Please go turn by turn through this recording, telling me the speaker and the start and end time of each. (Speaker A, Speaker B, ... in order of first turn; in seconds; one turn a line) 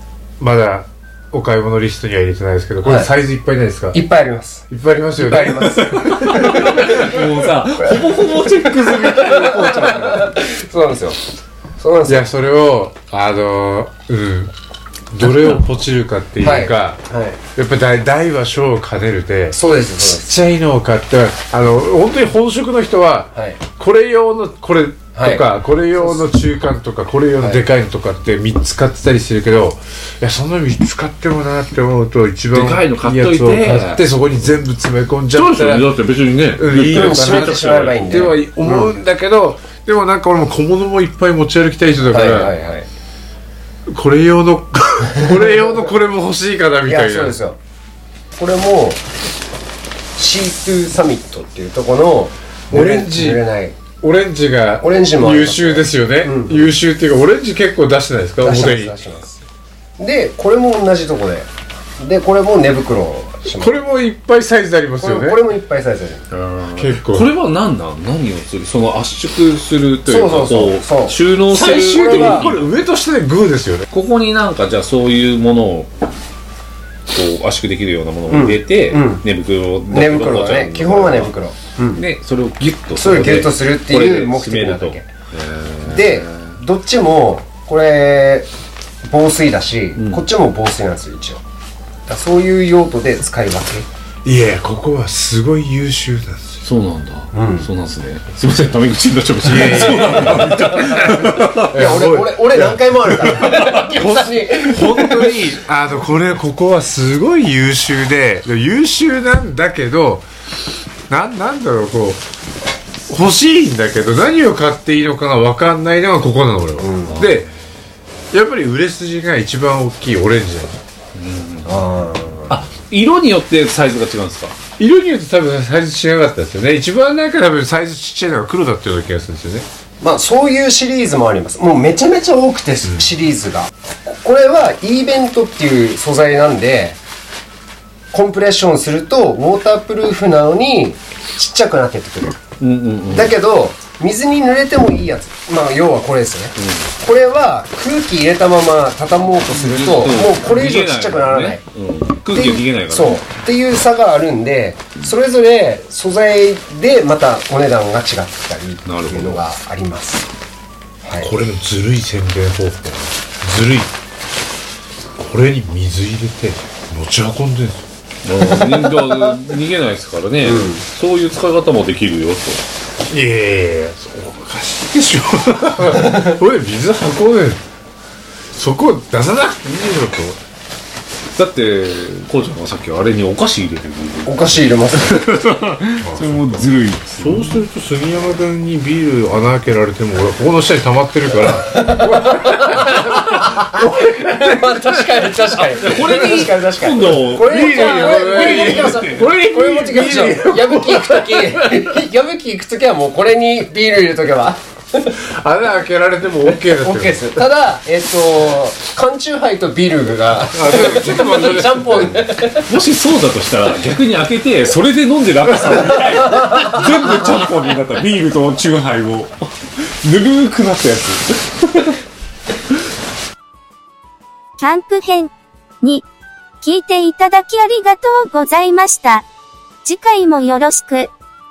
Speaker A: 0.4-4.0
Speaker B: 2.8-3.1
Speaker B: 3.9-11.2
Speaker A: 4.7-7.0
Speaker C: 5.5-10.4
Speaker B: 11.8-12.2
Speaker A: 12.1-14.5
Speaker A: 15.1-17.0
Speaker B: 16.4-17.4
Speaker A: 17.5-35.9
Speaker B: 19.5-20.4
Speaker B: 23.3-23.6
Speaker B: 25.1-26.2
Speaker B: 27.4-27.7
Speaker C: 32.5-34.0
Speaker C: 35.3-38.1
Speaker A: 36.5-42.5
Speaker B: 36.8-39.0
Speaker B: 42.1-42.9
Speaker A: 43.9-47.4
Speaker B: 46.8-47.6
Speaker B: 48.4-49.0
Speaker B: 50.1-53.8
Speaker A: 52.7-53.4
Speaker A: 54.0-59.0
Speaker B: 54.8-56.7
Speaker B: 58.4-59.4
Speaker B: 60.0-61.5
Speaker B: 62.0-63.8
Speaker A: 63.4-65.4
Speaker B: 65.0-66.2
Speaker C: 66.3-72.7
Speaker A: 66.7-67.3
Speaker B: 70.0-72.5
Speaker A: 71.5-73.8
Speaker C: 73.9-75.9
Speaker C: 77.1-81.3
Speaker B: 78.3-79.3
Speaker B: 79.9-82.0
Speaker C: 82.0-86.6
Speaker B: 82.9-85.1
Speaker B: 85.8-88.5
Speaker B: 89.0-91.4
Speaker C: 90.0-90.2
Speaker B: 92.1-93.9
Speaker A: 94.2-96.6
Speaker C: 96.6-101.8
Speaker B: 97.3-97.7
Speaker A: 99.4-110.2
Speaker B: 99.8-100.8
Speaker B: 101.7-105.3
Speaker C: 103.2-103.8
Speaker A: 111.1-112.2
Speaker A: 113.1-117.5
Speaker B: 116.8-117.3
Speaker C: 117.1-117.4
Speaker A: 118.3-120.8
Speaker C: 121.1-121.8
Speaker B: 121.6-122.6
Speaker C: 122.5-124.5
Speaker A: 124.8-129.7
Speaker B: 130.0-137.0
Speaker B: 138.1-142.4
Speaker C: 142.6-143.3
Speaker B: 143.1-151.6
Speaker C: 146.6-146.9
Speaker C: 149.5-153.2
Speaker B: 152.3-160.3
Speaker C: 158.8-159.4
Speaker B: 161.0-161.3
Speaker A: 161.2-163.9
Speaker A: 165.2-167.8
Speaker C: 168.2-172.6
Speaker B: 170.4-170.8
Speaker A: 173.1-177.6
Speaker B: 176.0-176.3
Speaker A: 178.5-180.4
Speaker C: 181.3-187.6
Speaker B: 184.2-185.2
Speaker A: 186.0-195.2
Speaker B: 191.5-205.1
Speaker C: 195.5-199.3
Speaker A: 197.4-201.9
Speaker A: 205.4-207.4
Speaker B: 206.5-212.7
Speaker A: 210.5-212.3
Speaker C: 212.7-222.0
Speaker D: 224.6-226.1
Speaker D: 226.6-229.3
Speaker D: 229.8-231.1